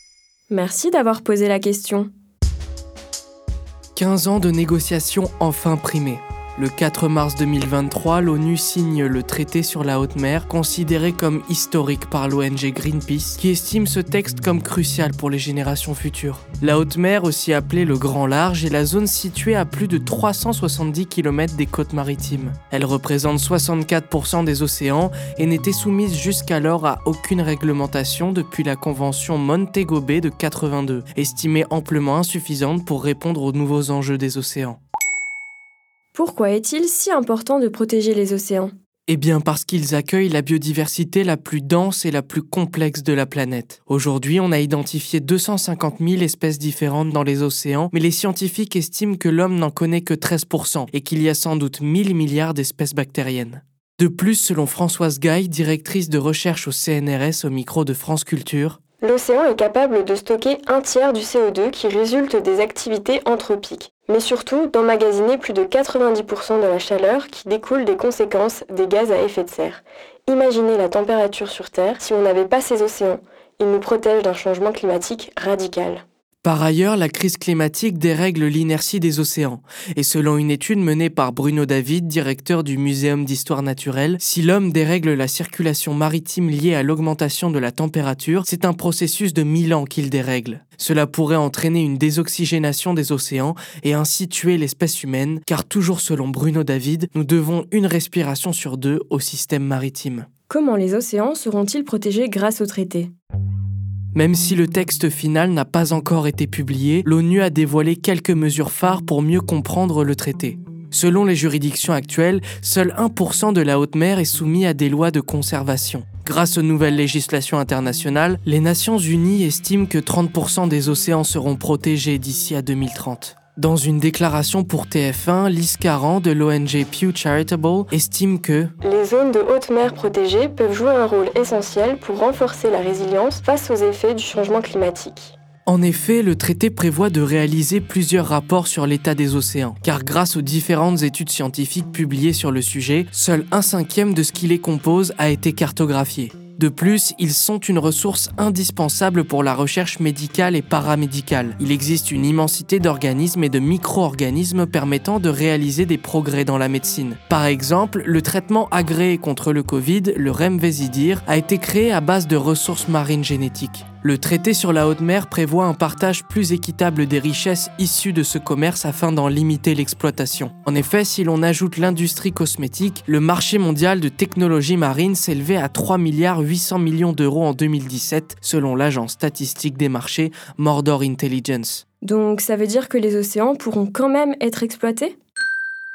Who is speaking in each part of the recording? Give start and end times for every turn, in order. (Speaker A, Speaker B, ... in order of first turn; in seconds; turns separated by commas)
Speaker A: 0.5-2.1, Speaker B: 4.0-34.8, Speaker A: 36.1-38.7, Speaker B: 39.1-58.8, Speaker A: 59.0-76.0, Speaker B: 76.4-100.3, Speaker A: 100.5-103.1, Speaker B: 104.1-128.7, Speaker A: 128.8-135.3, Speaker B: 135.7-181.8, Speaker A: 182.0-185.1